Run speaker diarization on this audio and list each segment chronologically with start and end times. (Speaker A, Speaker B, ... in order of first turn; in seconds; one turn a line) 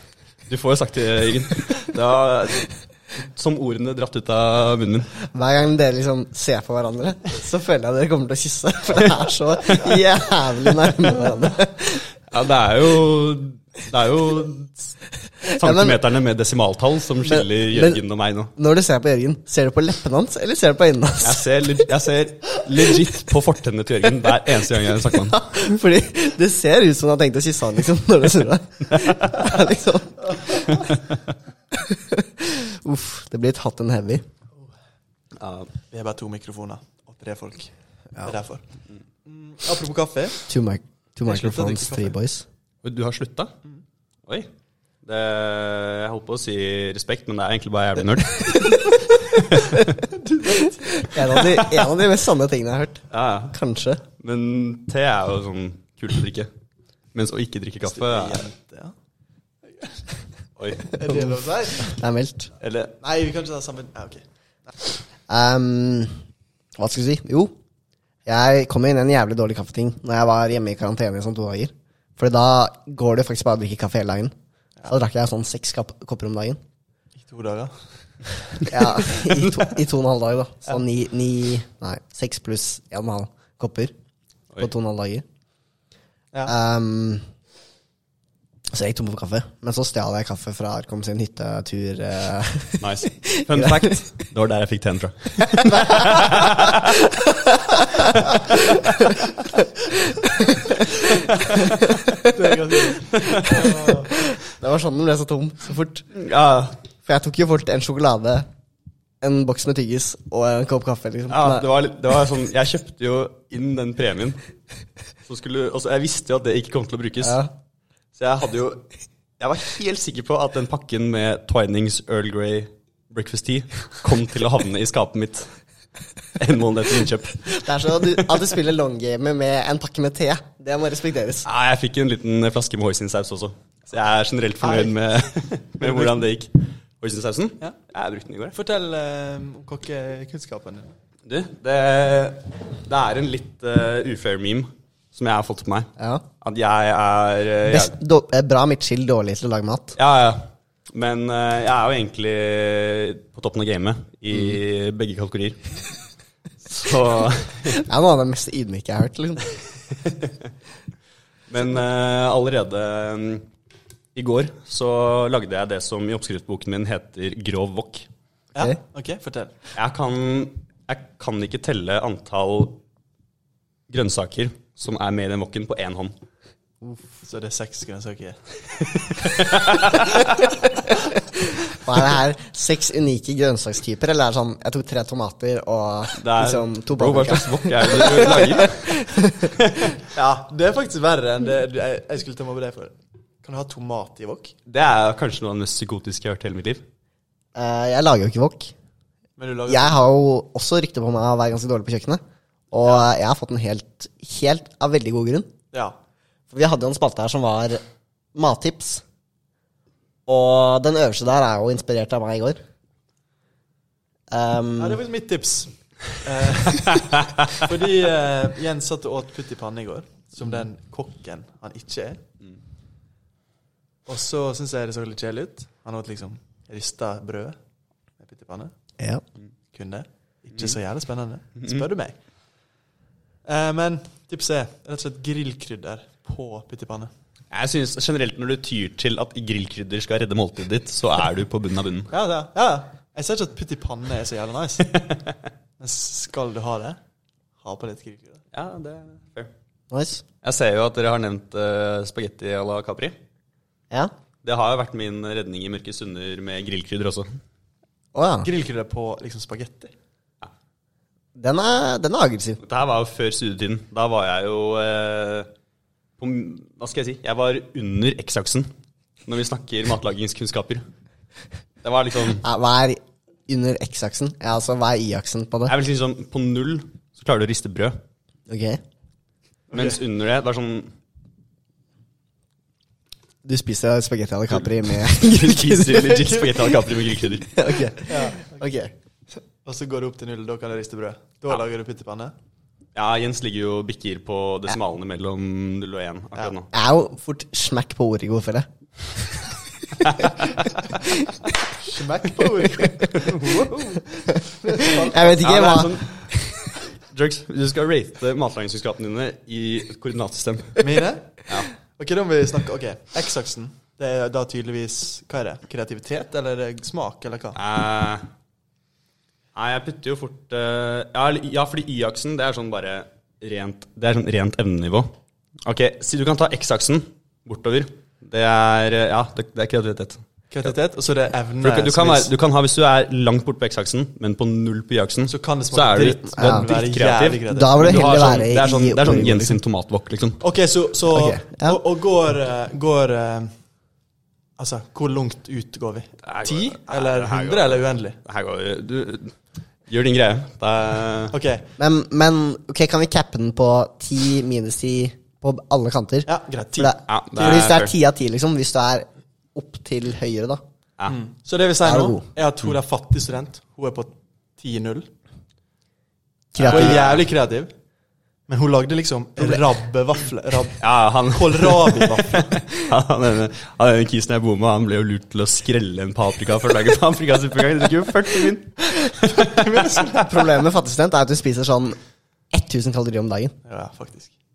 Speaker A: 0.5-5.1
Speaker B: 5.2-12.0
Speaker A: 12.3-18.5
Speaker B: 15.5-16.0
Speaker B: 17.2-18.0
Speaker B: 18.6-21.5
Speaker A: 21.2-25.5
Speaker B: 25.2-30.8
Speaker A: 29.0-29.4
Speaker B: 31.7-34.2
Speaker A: 35.4-35.7
Speaker C: 35.9-37.7
Speaker C: 38.2-38.6
Speaker C: 39.3-40.4
Speaker B: 40.5-42.5
Speaker C: 41.3-42.1
Speaker A: 42.8-43.5
Speaker A: 45.0-50.0
Speaker C: 50.2-50.8
Speaker B: 50.8-54.0
Speaker A: 51.4-51.9
Speaker A: 53.1-53.5
Speaker A: 54.2-56.5
Speaker A: 57.1-58.5
Speaker C: 57.9-58.9
Speaker A: 60.6-60.9
Speaker C: 60.9-62.0
Speaker B: 61.0-62.5
Speaker A: 62.6-62.9
Speaker C: 63.0-64.2
Speaker B: 65.3-66.2
Speaker B: 66.8-67.5
Speaker B: 68.3-74.3
Speaker B: 74.9-76.6
Speaker C: 77.2-77.7
Speaker B: 78.6-83.9
Speaker B: 84.6-85.2
Speaker B: 86.5-87.2
Speaker B: 88.7-94.0
Speaker A: 92.8-97.0
Speaker B: 95.6-102.3
Speaker A: 101.5-101.7
Speaker C: 102.2-104.1
Speaker A: 103.1-103.7
Speaker B: 103.5-106.1
Speaker A: 106.1-106.8
Speaker B: 107.0-108.5
Speaker B: 109.2-111.7
Speaker A: 111.3-114.4
Speaker A: 115.3-117.4
Speaker B: 117.2-117.5
Speaker A: 118.2-118.8
Speaker A: 119.4-125.5
Speaker A: 126.4-127.6
Speaker B: 127.5-131.5
Speaker A: 131.4-138.6
Speaker C: 134.6-135.0
Speaker C: 135.8-136.2
Speaker C: 138.5-140.9
Speaker A: 141.3-145.9
Speaker B: 146.0-146.2
Speaker A: 146.4-147.9
Speaker B: 147.7-150.0
Speaker A: 150.0-155.8
Speaker A: 156.7-157.8
Speaker B: 157.7-159.4
Speaker A: 160.0-160.3
Speaker A: 161.5-163.5
Speaker A: 164.2-168.1
Speaker C: 168.5-169.6
Speaker A: 169.8-172.8
Speaker A: 173.9-176.1
Speaker C: 177.2-178.4
Speaker A: 179.1-180.5
Speaker B: 181.7-189.6
Speaker A: 186.2-188.9
Speaker C: 190.1-194.5
Speaker A: 194.7-196.8
Speaker B: 197.6-198.7
Speaker C: 199.4-200.0
Speaker B: 199.7-202.2
Speaker B: 202.7-205.5
Speaker C: 205.7-206.0
Speaker B: 206.5-207.8
Speaker B: 208.3-209.0
Speaker B: 210.3-212.6
Speaker B: 214.3-215.0
Speaker C: 214.8-222.2
Speaker C: 224.1-227.6
Speaker C: 228.2-228.7
Speaker C: 229.7-232.2
Speaker C: 233.4-237.1
Speaker A: 237.5-242.1
Speaker C: 242.1-244.9
Speaker C: 245.8-247.0
Speaker C: 247.6-248.4
Speaker A: 248.5-249.5
Speaker B: 249.9-250.2
Speaker A: 250.4-253.2
Speaker A: 254.4-257.4
Speaker B: 258.1-258.5
Speaker C: 258.4-259.9
Speaker B: 261.4-262.6
Speaker A: 262.6-265.5
Speaker A: 266.2-268.7
Speaker A: 269.3-270.8
Speaker A: 271.8-272.4
Speaker B: 272.4-275.7
Speaker A: 275.7-278.0
Speaker B: 278.5-278.8
Speaker A: 279.7-280.9
Speaker C: 279.7-280.0
Speaker B: 283.4-286.3
Speaker A: 284.6-287.6
Speaker B: 287.5-288.9
Speaker C: 288.1-288.6
Speaker C: 289.6-292.3
Speaker A: 292.9-296.7
Speaker B: 296.7-298.7
Speaker A: 300.1-300.6
Speaker C: 301.8-303.7
Speaker A: 303.1-304.0
Speaker B: 304.4-306.0
Speaker C: 304.6-305.4
Speaker A: 305.1-310.9
Speaker C: 310.8-311.3
Speaker C: 312.0-317.6
Speaker A: 317.6-318.3
Speaker A: 319.6-325.1
Speaker A: 325.7-330.2
Speaker C: 330.5-332.3
Speaker A: 331.6-340.4
Speaker C: 335.3-338.2
Speaker B: 336.4-336.7
Speaker B: 337.5-339.6
Speaker C: 340.4-343.5
Speaker B: 341.1-341.8
Speaker C: 344.6-348.2
Speaker A: 346.2-349.4
Speaker A: 349.9-351.4
Speaker C: 351.3-351.6
Speaker B: 351.8-360.6
Speaker C: 356.3-357.0
Speaker A: 357.1-357.9
Speaker C: 361.1-365.1
Speaker B: 361.8-362.2
Speaker B: 366.5-367.0
Speaker A: 366.6-367.3
Speaker C: 366.6-367.7
Speaker C: 368.5-372.6
Speaker A: 370.8-380.2
Speaker C: 379.3-380.3
Speaker B: 380.1-382.0
Speaker B: 382.5-383.5
Speaker C: 383.6-384.3